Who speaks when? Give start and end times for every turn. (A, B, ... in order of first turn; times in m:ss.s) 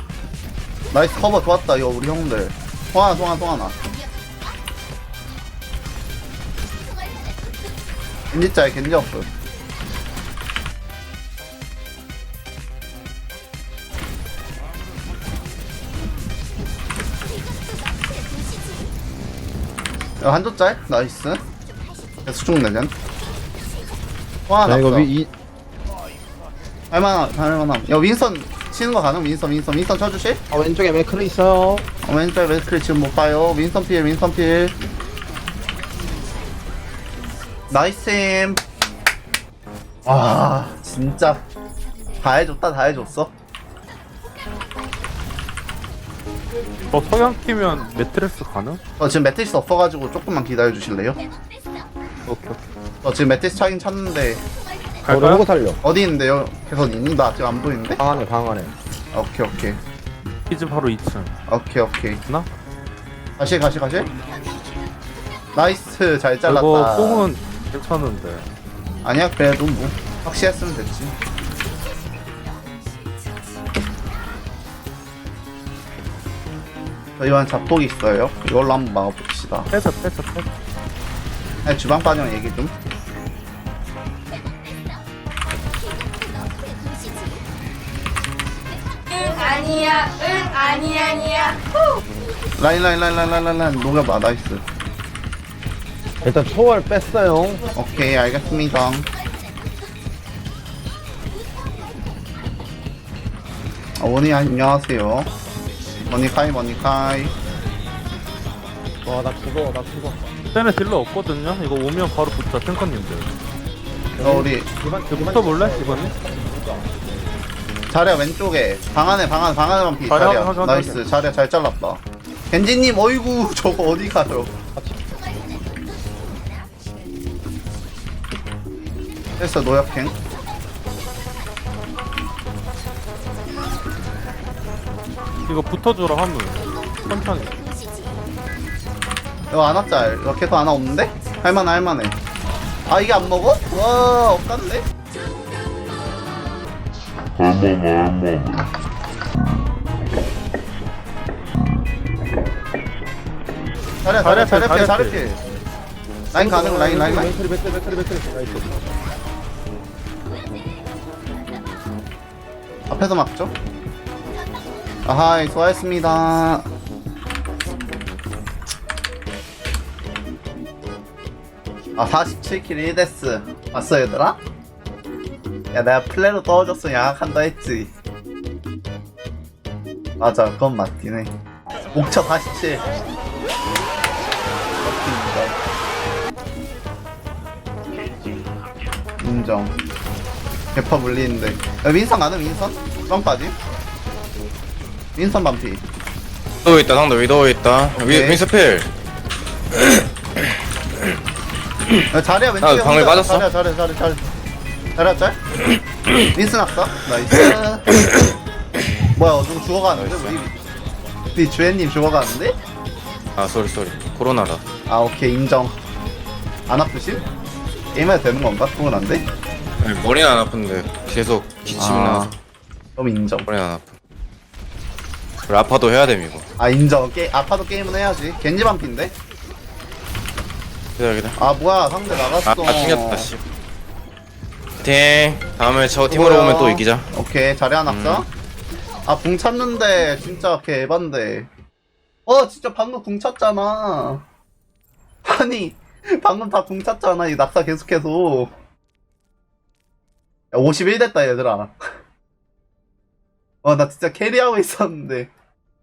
0:00.9-0:03.8 A
0:08.3-0:09.3 A
0:20.2-0:21.4 A
0:22.2-0:22.9 A
0:24.5-0:25.1 A
0:24.6-0:25.3 B
0:26.9-0:30.4 A
0:30.5-0:31.8 B
0:32.0-0:34.7 A
0:37.7-0:38.6 A
0:40.0-0:41.4 A
0:42.2-0:43.3 A
0:46.9-0:48.8 C
0:49.0-0:51.2 A
0:52.3-0:52.6 C
0:53.0-0:54.4 A
0:55.0-0:55.4 C
0:55.1-0:55.8 B
0:55.8-0:58.0 A
0:58.0-0:58.7 B
0:59.1-0:59.8 A
1:00.5-1:01.3 C
1:01.5-1:02.2 A
1:03.4-1:04.1 A
1:05.5-1:07.3 A
1:06.4-1:08.5 C
1:09.0-1:11.1 A
1:17.2-1:19.7 A
1:19.7-1:20.5 C
1:21.6-1:22.7 A
1:29.1-1:32.0 D
1:32.6-1:34.6 A
1:36.2-1:37.7 B
1:37.7-1:39.1 A
1:44.0-1:45.3 A
1:46.1-1:47.3 A
1:49.0-1:50.3 B
1:50.5-1:53.3 C
1:54.2-1:57.0 B
1:54.2-1:54.7 A
1:55.1-1:56.1 C
1:57.9-2:04.5 A
2:00.1-2:01.0 C
2:09.4-2:10.2 A
2:15.5-2:17.6 C
2:19.5-2:22.2 A
2:22.9-2:24.8 A
2:34.0-2:35.4 A
2:34.2-2:35.3 C
2:36.3-2:37.3 A
2:36.3-2:38.8 B
2:42.9-2:43.5 A
2:45.0-2:46.7 A
2:52.0-2:54.4 A
2:55.7-2:57.9 A
3:00.2-3:01.3 A
3:01.9-3:02.8 A
3:04.8-3:05.5 A
3:09.2-3:09.8 A
3:10.7-3:13.5 A
3:15.2-3:15.8 A
3:16.6-3:18.9 E
3:18.0-3:18.4 A
3:22.1-3:24.3 A
3:22.6-3:23.5 E
3:25.0-3:25.4 A
3:26.3-3:28.0 A
3:29.1-3:30.6 A
3:29.9-3:30.4 E
3:31.3-3:32.5 A
3:33.4-3:34.6 E
3:34.9-3:35.8 A
3:36.7-3:37.2 A
3:37.9-3:39.2 A
3:39.8-3:42.3 E
3:41.8-3:42.3 A
3:43.0-3:43.5 A
3:43.5-3:43.9 E
3:45.5-3:46.4 E
3:46.6-3:49.1 A
3:51.0-3:51.4 E
3:51.4-3:53.3 A
3:52.4-3:53.4 E
3:54.8-3:57.1 E
3:56.1-3:58.3 A
3:57.8-3:58.2 E
3:59.0-4:01.5 A
4:02.2-4:04.2 A
4:05.2-4:08.5 A
4:10.5-4:11.7 A
4:13.6-4:15.3 A